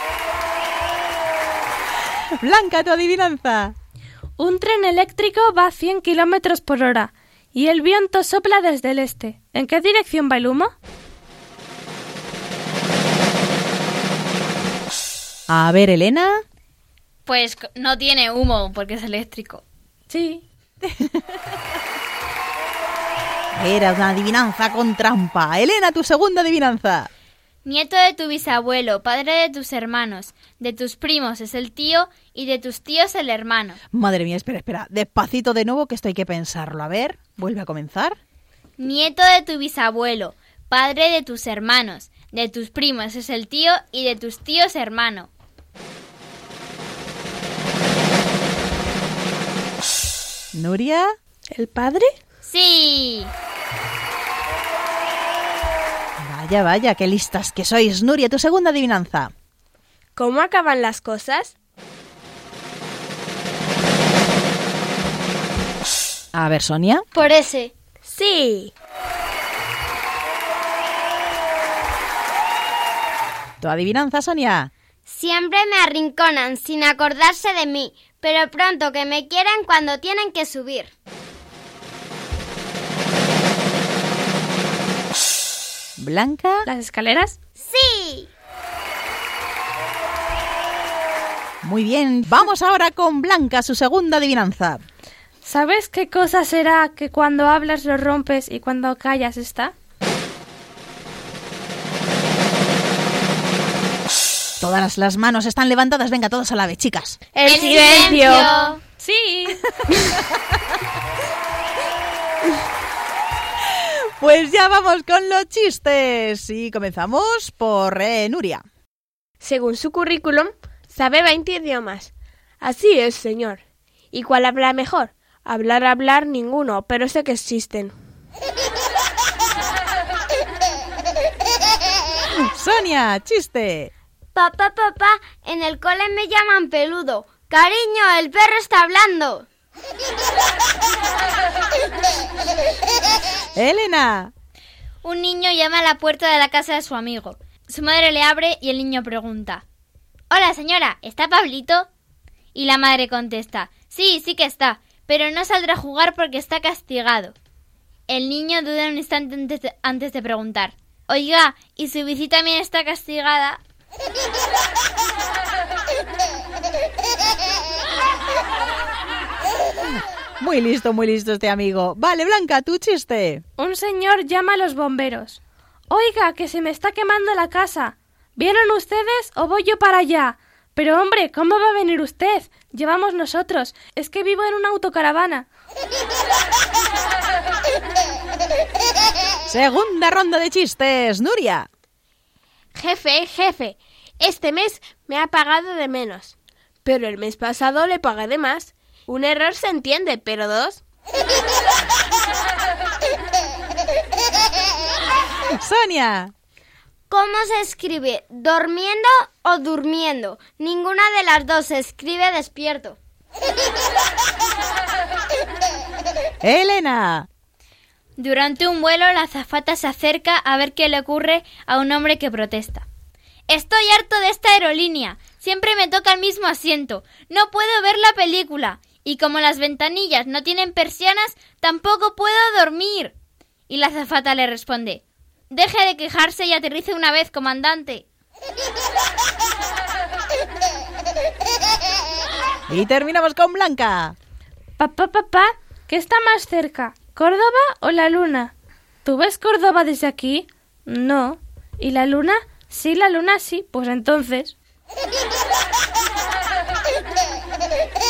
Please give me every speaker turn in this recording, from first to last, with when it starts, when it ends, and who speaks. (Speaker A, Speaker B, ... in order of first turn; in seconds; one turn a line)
Speaker A: 2.4-3.7
Speaker B: 4.4-10.7
Speaker A: 15.5-16.3
Speaker C: 17.2-19.6
Speaker B: 20.1-20.4
Speaker A: 23.5-27.1
Speaker C: 27.6-33.8
Speaker A: 33.9-38.2
Speaker C: 38.8-45.3
Speaker A: 50.5-51.1
Speaker D: 51.5-52.1
Speaker C: 52.4-53.3
Speaker A: 56.2-59.3
Speaker D: 60.1-61.5
Speaker A: 66.3-67.0
Speaker E: 67.1-67.7
Speaker D: 68.0-68.7
Speaker A: 73.6-74.7
Speaker E: 75.1-80.9
Speaker A: 86.0-86.7
Speaker B: 86.6-87.4
Speaker E: 87.6-88.3
Speaker A: 91.6-94.8
Speaker B: 95.4-99.7
Speaker A: 104.6-107.2
Speaker D: 107.3-108.6
Speaker C: 107.4-108.8
Speaker B: 109.0-109.7
Speaker A: 113.7-118.6
Speaker D: 119.4-123.6
Speaker D: 124.1-127.9
Speaker A: 132.3-133.9
Speaker E: 134.3-139.5
Speaker A: 143.5-144.3
Speaker C: 145.0-149.6
Speaker C: 150.3-151.9
Speaker C: 152.5-157.3
Speaker C: 158.1-163.6
Speaker A: 170.4-173.4
Speaker B: 173.6-185.4
Speaker A: 189.5-191.7
Speaker D: 192.7-200.8
Speaker A: 205.6-206.3
Speaker E: 207.1-213.0
Speaker A: 216.4-217.3
Speaker C: 218.2-222.8
Speaker C: 223.5-233.1
Speaker C: 233.7-238.1
Speaker A: 242.7-244.1
Speaker B: 244.8-254.5